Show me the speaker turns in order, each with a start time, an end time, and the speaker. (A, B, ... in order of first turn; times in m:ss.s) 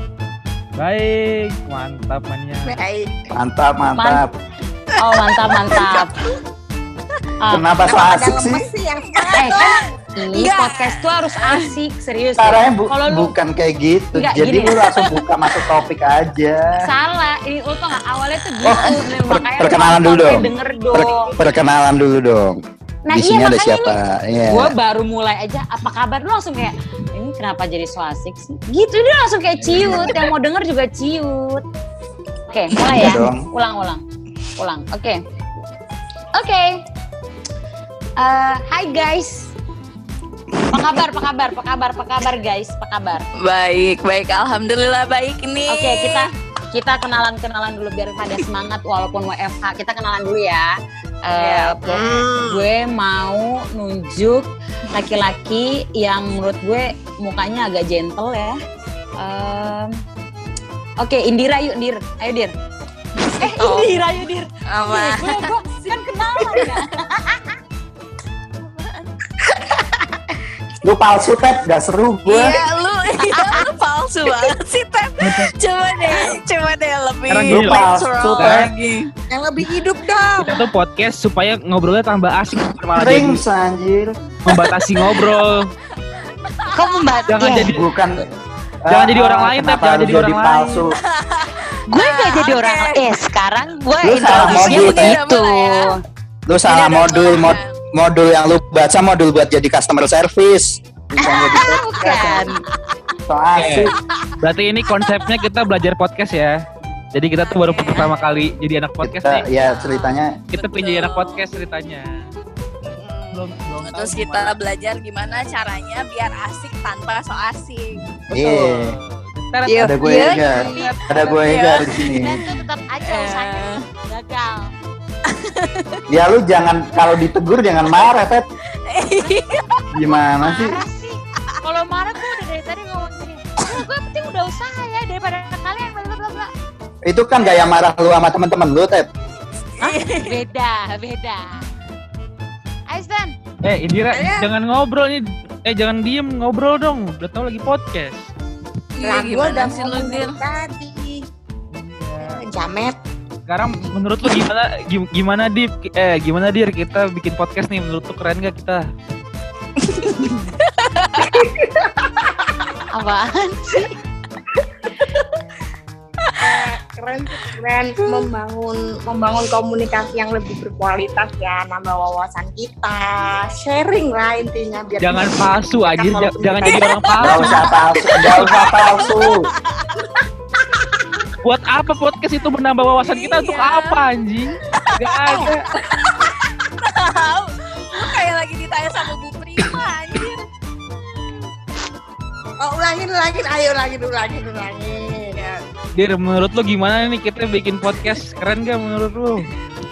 0:00.8-0:02.8 A
0:02.7-0:03.1 B
0:03.3-0:04.4 C
0:04.0-0:04.2 D
0:05.0-0:06.3 D
0:05.5-0:06.4 E
0:07.5-0:08.6 C
0:07.8-0:09.9 B
0:09.1-0:11.7 E
0:09.4-0:13.4 D
0:12.4-0:16.8 C
0:14.2-0:14.9 D
0:16.8-0:21.4 D
0:18.6-0:22.6 C
0:23.0-0:31.6 D
0:23.1-0:24.8 C
0:29.6-0:30.2 C
0:32.5-0:34.0 D
0:32.9-0:33.5 C
0:34.6-0:35.2 D
0:36.4-0:36.8 D
0:38.2-0:39.5 D
0:40.7-0:43.3 D
0:43.4-0:46.3 E
0:45.7-0:50.7 D
0:51.3-0:58.6 D
0:51.4-0:52.6 E
0:59.2-1:00.0 D
1:01.0-1:02.5 D
1:03.2-1:03.9 E
1:03.4-1:07.4 D
1:04.7-1:06.7 E
1:08.6-1:09.1 E
1:10.8-1:12.6 C
1:12.3-1:19.1 E
1:15.2-1:15.5 A
1:17.3-1:18.7 A
1:17.4-1:18.7 C
1:19.3-1:20.6 B
1:20.4-1:23.4 A
1:23.0-1:24.2 C
1:24.4-1:25.7 A
1:24.6-1:25.5 E
1:26.4-1:27.2 E
1:26.7-1:27.7 D
1:27.3-1:27.9 A
1:27.6-1:28.3 C
1:28.9-1:31.0 C
1:28.9-1:30.8 A
1:31.0-1:33.2 E
1:31.9-1:36.0 D
1:34.0-1:35.2 C
1:34.0-1:36.0 E
1:36.5-1:42.5 C
1:36.6-1:37.7 E
1:41.2-1:42.6 D
1:43.3-1:44.0 C
1:43.6-1:46.6 A
1:47.1-1:49.5 A
1:47.4-1:48.6 E
1:49.0-1:50.4 C
1:49.5-1:51.5 E
1:50.5-1:52.2 A
1:52.8-1:54.6 A
1:53.0-1:58.0 E
1:55.2-1:55.8 A
1:58.3-1:59.0 C
1:58.6-2:01.0 A
1:59.7-2:00.5 E
1:59.7-2:02.4 C
2:00.0-2:00.5 B
2:00.5-2:01.0 D
2:01.2-2:02.4 E
2:02.1-2:04.7 D
2:03.0-2:03.8 E
2:05.3-2:06.0 E
2:06.1-2:08.4 C
2:08.9-2:09.8 E
2:09.9-2:10.8 C
2:10.4-2:16.5 D
2:17.0-2:19.1 C
2:19.8-2:20.4 E
2:19.8-2:21.6 D
2:22.9-2:23.4 D
2:23.6-2:28.3 A
2:24.1-2:24.5 B
2:29.0-2:30.4 E
2:29.0-2:31.3 B
2:31.7-2:32.4 A
2:32.2-2:33.0 B
2:33.5-2:38.8 A
2:39.8-2:41.3 E
2:41.2-2:42.3 B
2:42.9-2:43.9 D
2:45.0-2:45.3 E
2:46.4-2:58.6 B
2:55.0-2:57.5 A
2:57.2-2:59.5 C
2:58.3-3:00.0 E
3:01.4-3:05.7 A
3:03.0-3:04.0 E
3:05.0-3:10.4 E
3:05.3-3:05.6 B
3:12.6-3:15.4 B
3:15.4-3:15.6 E
3:16.0-3:19.5 A